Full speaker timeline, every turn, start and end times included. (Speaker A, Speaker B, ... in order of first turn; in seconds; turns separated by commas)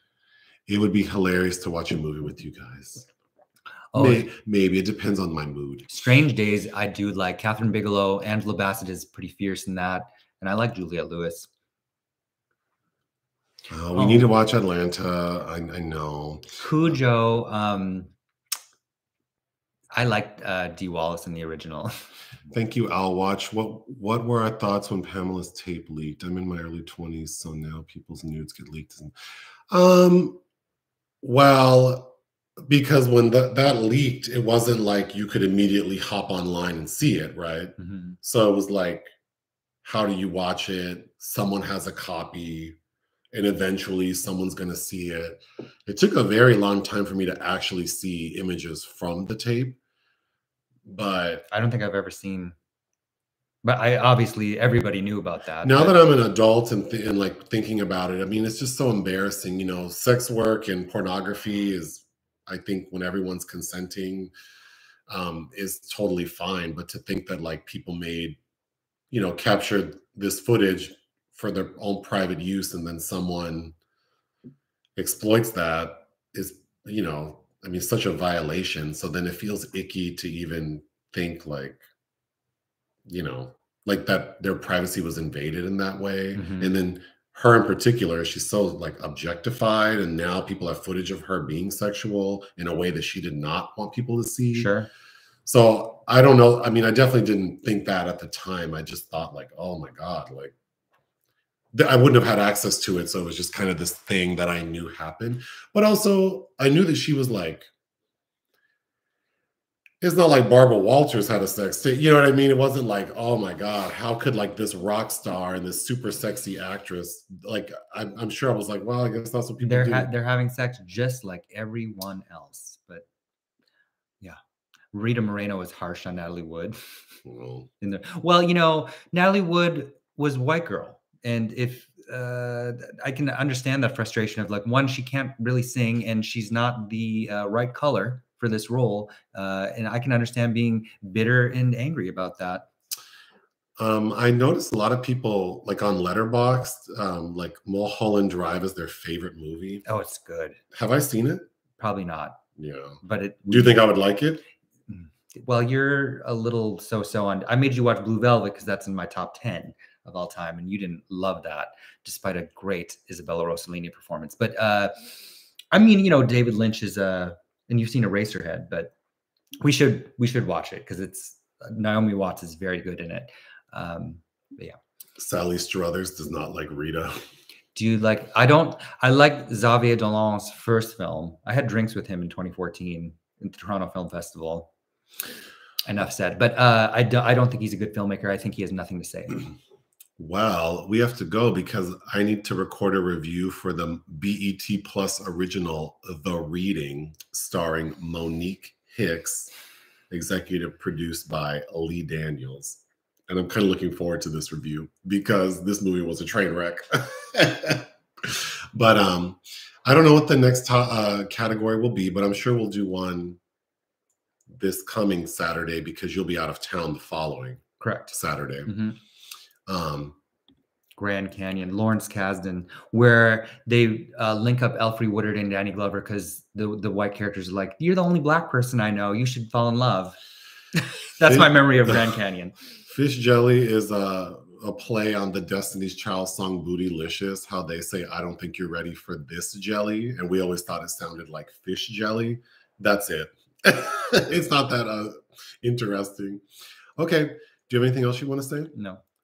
Speaker A: 0.7-3.1, Speaker B: 3.9-4.3, Speaker A: 3.9-5.9, Speaker B: 5.9-11.5, Speaker A: 13.7-16.9, Speaker B: 13.9-14.3, Speaker B: 16.6-18.1, Speaker B: 19.9-22.0, Speaker A: 22.5-29.1, Speaker A: 29.7-30.4, Speaker A: 31.2-32.1, Speaker A: 32.7-39.1, Speaker B: 37.8-38.2, Speaker A: 39.8-42.8, Speaker A: 43.3-49.8, Speaker A: 50.9-51.5, Speaker B: 51.5-52.5, Speaker B: 53.6-56.0, Speaker A: 55.6-64.3, Speaker A: 65.1-68.4, Speaker A: 69.1-73.8, Speaker A: 75.0-81.8, Speaker A: 83.1-94.7, Speaker B: 86.4-86.7, Speaker B: 94.5-94.9, Speaker A: 95.5-100.5, Speaker A: 101.7-107.7, Speaker A: 110.0-120.1, Speaker B: 119.6-123.0, Speaker B: 124.9-126.8, Speaker A: 127.2-127.7, Speaker B: 127.8-142.7, Speaker A: 143.8-149.8, Speaker B: 149.9-150.6, Speaker A: 150.7-151.5, Speaker B: 151.8-152.4, Speaker A: 152.6-154.4, Speaker B: 153.0-153.8, Speaker B: 154.9-165.2, Speaker B: 165.7-168.9, Speaker B: 169.6-174.8, Speaker A: 175.2-177.2, Speaker B: 177.8-184.7, Speaker B: 185.8-189.5, Speaker A: 190.2-199.5, Speaker A: 200.1-213.4, Speaker A: 214.5-218.7, Speaker B: 217.8-218.1, Speaker B: 218.7-219.0, Speaker A: 219.7-220.2, Speaker B: 221.0-230.2, Speaker B: 230.7-232.6, Speaker A: 231.3-232.0, Speaker A: 232.9-246.4, Speaker A: 247.0-248.7, Speaker B: 248.7-249.0